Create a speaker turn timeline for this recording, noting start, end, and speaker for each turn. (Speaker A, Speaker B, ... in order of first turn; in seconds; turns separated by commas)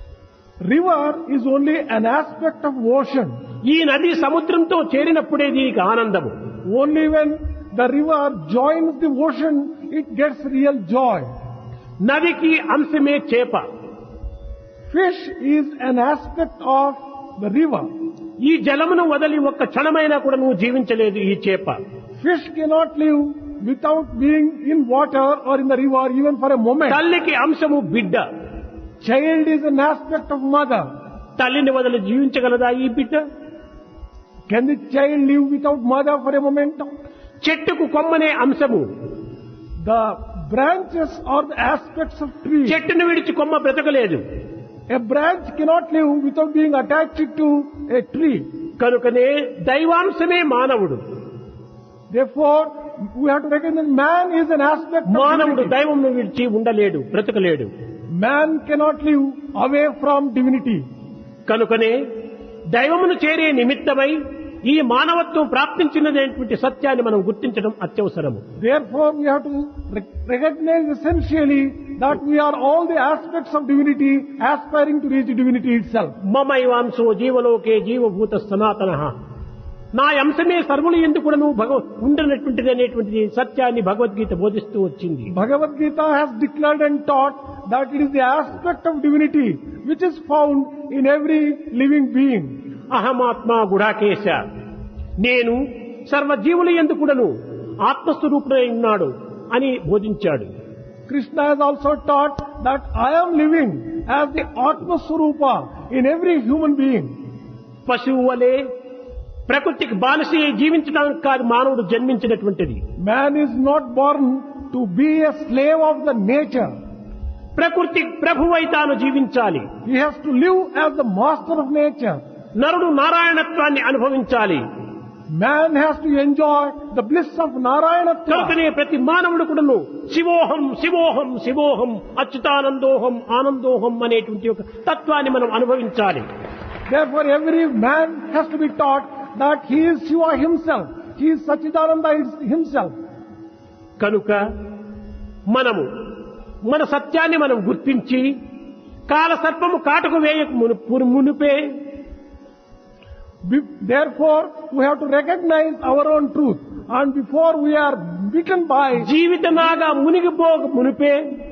Speaker A: 0.7-3.3, Speaker B: 3.7-6.3, Speaker A: 6.7-11.3, Speaker B: 12.0-13.7, Speaker A: 14.9-17.9, Speaker B: 18.4-21.8, Speaker A: 22.2-27.0, Speaker B: 26.9-28.2, Speaker A: 29.0-30.9, Speaker B: 31.4-33.2, Speaker A: 34.5-36.9, Speaker B: 37.4-38.9, Speaker A: 39.8-42.8, Speaker B: 42.7-44.2, Speaker A: 44.9-48.5, Speaker B: 48.8-51.0, Speaker A: 52.1-55.7, Speaker B: 55.1-57.7, Speaker A: 58.2-60.8, Speaker B: 61.5-62.0, Speaker B: 62.7-68.4, Speaker A: 68.6-76.2, Speaker B: 76.2-79.1, Speaker B: 80.0-85.3, Speaker A: 85.3-92.5, Speaker B: 92.9-94.4, Speaker B: 95.2-97.3, Speaker B: 97.8-100.5, Speaker A: 101.1-107.2, Speaker B: 107.9-108.6, Speaker B: 109.5-112.8, Speaker A: 113.0-116.7, Speaker B: 117.6-119.7, Speaker A: 119.8-122.2, Speaker B: 122.6-124.6, Speaker A: 125.4-128.6, Speaker B: 128.3-136.2, Speaker A: 136.9-142.9, Speaker B: 144.0-144.4, Speaker B: 145.5-145.9, Speaker B: 146.7-148.3, Speaker B: 149.1-151.6, Speaker A: 153.5-159.1, Speaker B: 159.0-161.2